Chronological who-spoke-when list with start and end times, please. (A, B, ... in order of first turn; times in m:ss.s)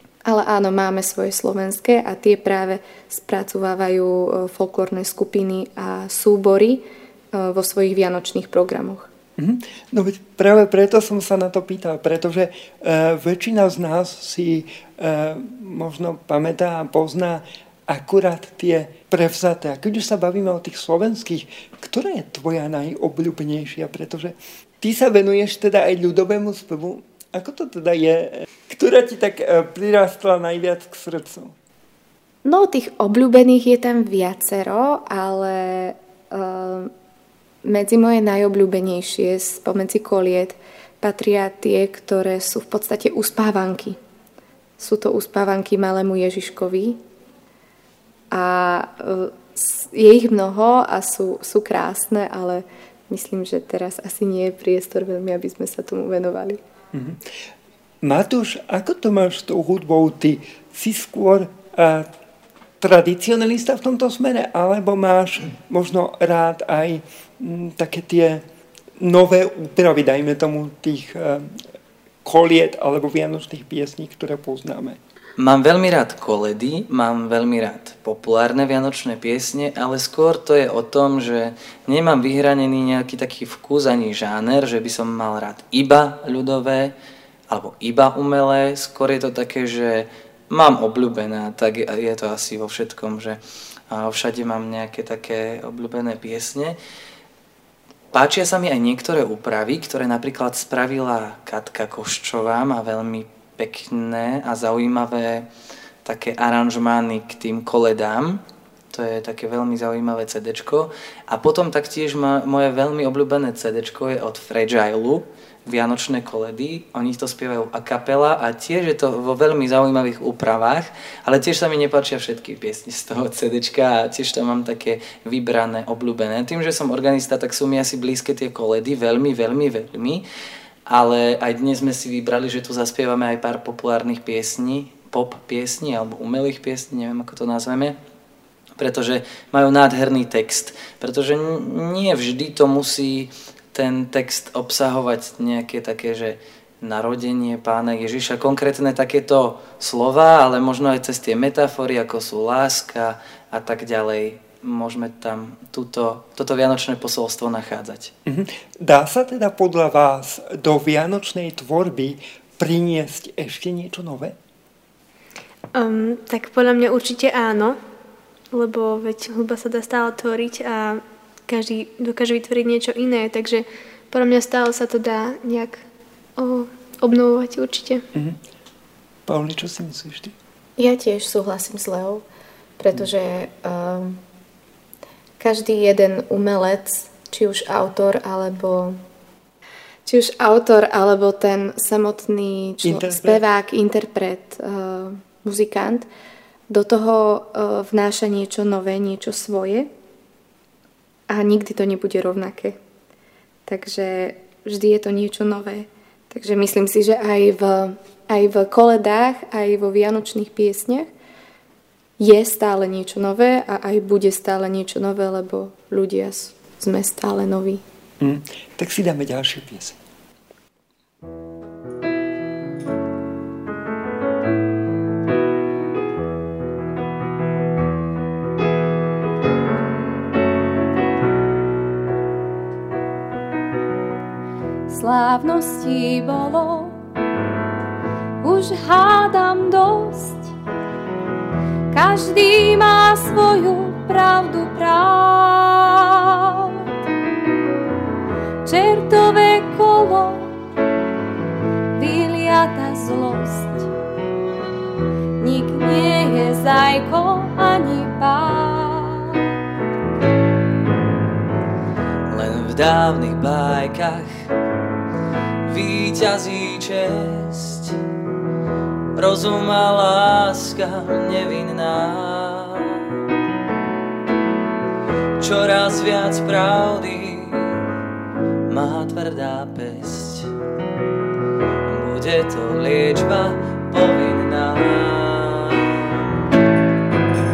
0:00.2-0:09.1 A
0:09.4-0:31.5 B
0:32.4-0:36.9 A
0:37.6-0:44.0 A
0:44.8-0:47.0 A
0:48.3-0:56.6 A
0:56.9-0:57.2 B
0:58.0-1:02.1 B
1:02.8-1:08.4 B
1:09.0-1:11.6 B
1:12.2-1:15.0 B
1:15.4-1:26.9 C
1:27.5-1:33.4 C
1:33.9-1:36.8 C
1:38.1-1:45.5 C
1:46.0-2:10.2 C
2:10.9-2:18.0 C
2:18.8-2:38.1 C
2:38.2-2:44.4 B
2:45.7-2:47.8 D
2:48.5-2:55.8 D
2:56.4-2:58.0 D
2:58.1-2:58.4 B
2:59.2-3:00.3 B
3:00.8-3:02.2 A
3:02.8-3:04.2 A
3:05.4-3:09.0 A
3:10.0-3:16.1 A
3:12.8-3:13.4 B
3:16.7-3:19.9 A
3:21.3-3:22.8 A
3:23.6-3:31.1 A
3:32.2-3:37.8 A
3:38.2-3:40.0 B
3:54.9-3:57.0 E
3:58.4-4:00.5 E
4:01.9-4:06.8 E
4:08.6-4:10.5 E
4:12.0-4:13.9 E
4:15.4-4:19.5 E
4:22.3-4:24.5 C
4:25.6-4:28.0 C
4:29.1-4:33.1 C
4:35.4-4:37.8 C
4:38.7-4:40.5 C
4:41.8-4:46.2 C